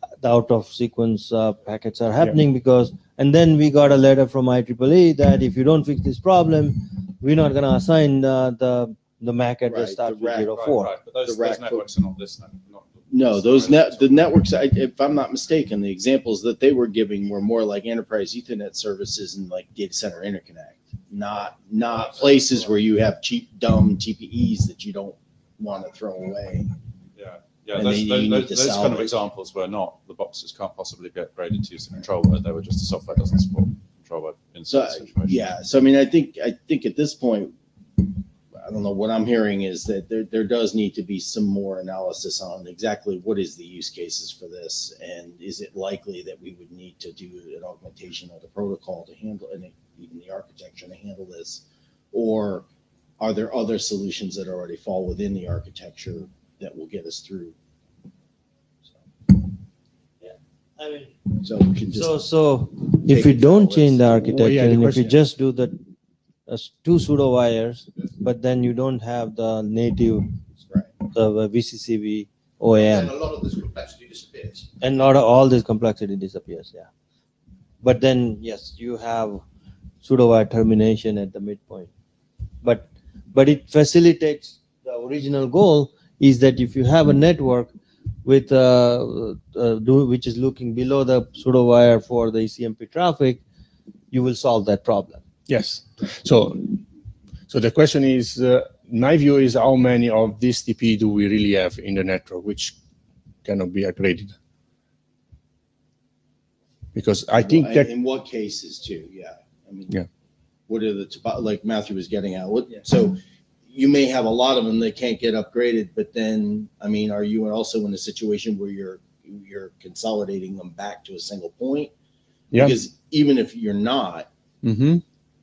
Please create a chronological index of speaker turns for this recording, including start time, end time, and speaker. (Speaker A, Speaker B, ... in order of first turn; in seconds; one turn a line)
Speaker A: 0.2-10.9
Speaker B: 9.7-11.8
Speaker C: 10.6-14.4
Speaker B: 13.1-26.7
Speaker C: 27.1-35.5
Speaker B: 27.7-29.1
Speaker B: 34.7-52.7
Speaker B: 53.2-57.5
Speaker A: 60.2-61.3
Speaker B: 61.4-62.2
Speaker A: 61.9-65.8
Speaker B: 63.0-64.1
Speaker D: 64.2-65.2
Speaker A: 66.5-70.4
Speaker A: 71.0-73.2
Speaker E: 72.7-74.7
Speaker A: 74.8-76.9
Speaker A: 77.8-79.4
Speaker A: 80.0-81.9
Speaker A: 82.6-87.7
Speaker A: 88.2-93.4
Speaker A: 94.1-95.2
Speaker D: 95.5-96.8
Speaker D: 97.5-102.8
Speaker D: 103.4-104.3
Speaker D: 106.9-107.9
Speaker B: 107.4-110.0
Speaker B: 110.7-121.9
Speaker B: 122.5-124.3
Speaker D: 124.6-125.0